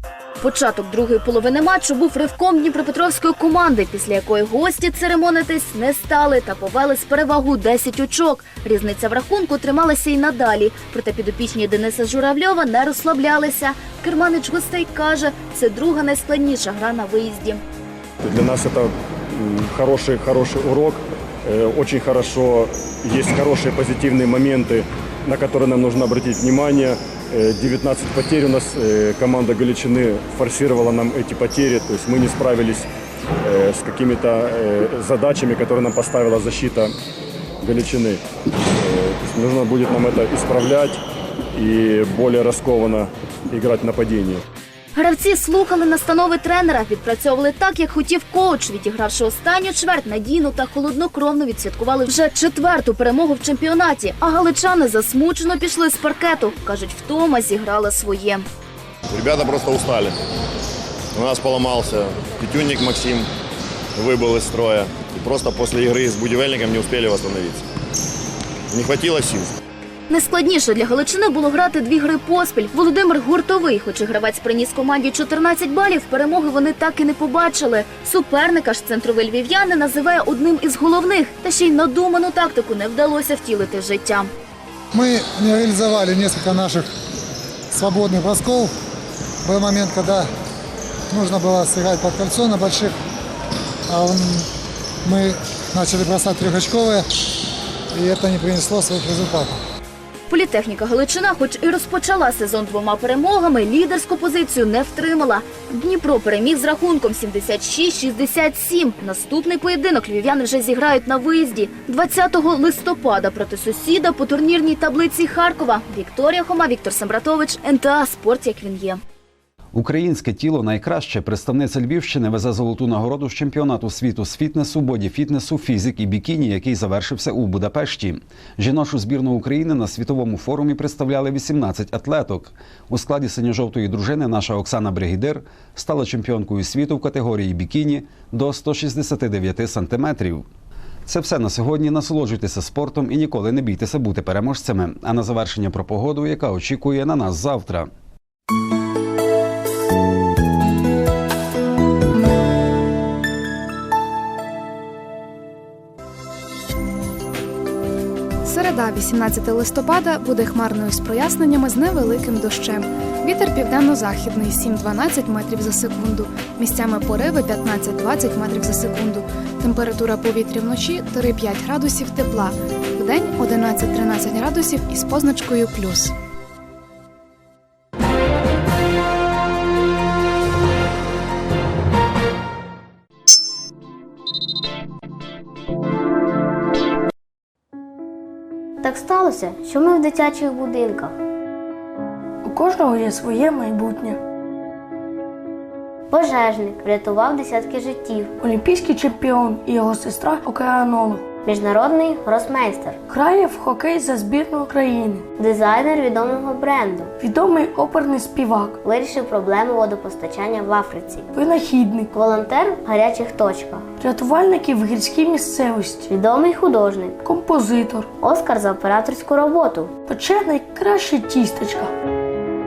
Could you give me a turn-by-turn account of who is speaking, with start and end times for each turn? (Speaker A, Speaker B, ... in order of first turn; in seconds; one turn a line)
Speaker A: 0.4-17.6
Speaker B: 18.2-32.9
Speaker B: 33.4-37.0
Speaker B: 37.6-38.2
Speaker B: 38.8-41.0
Speaker B: 41.5-44.4
Speaker A: 45.0-58.5
Speaker C: 59.1-60.2
Speaker C: 61.1-63.3
Speaker C: 64.0-67.7
Speaker C: 68.7-69.5
Speaker A: 70.1-84.3
Speaker D: 84.9-86.9
Speaker D: 87.7-88.7
Speaker D: 89.4-90.3
Speaker D: 91.1-93.0
Speaker D: 93.9-94.5
Speaker D: 95.0-97.1
Speaker D: 97.9-99.6
Speaker A: 100.3-119.0
Speaker E: 119.7-140.5
Speaker E: 141.1-147.9
Speaker F: 158.4-176.1
Speaker G: 188.8-191.1
Speaker H: 192.4-194.2
Speaker G: 196.1-198.3
Speaker H: 198.4-201.2
Speaker G: 201.4-203.0
Speaker H: 203.1-205.3
Speaker G: 205.4-207.1
Speaker H: 207.2-208.8
Speaker G: 208.8-211.3
Speaker H: 211.3-212.1
Speaker G: 212.1-213.8
Speaker H: 214.0-216.1
Speaker G: 216.1-217.2
Speaker H: 217.2-218.1
Speaker G: 218.2-219.9
Speaker H: 220.1-221.9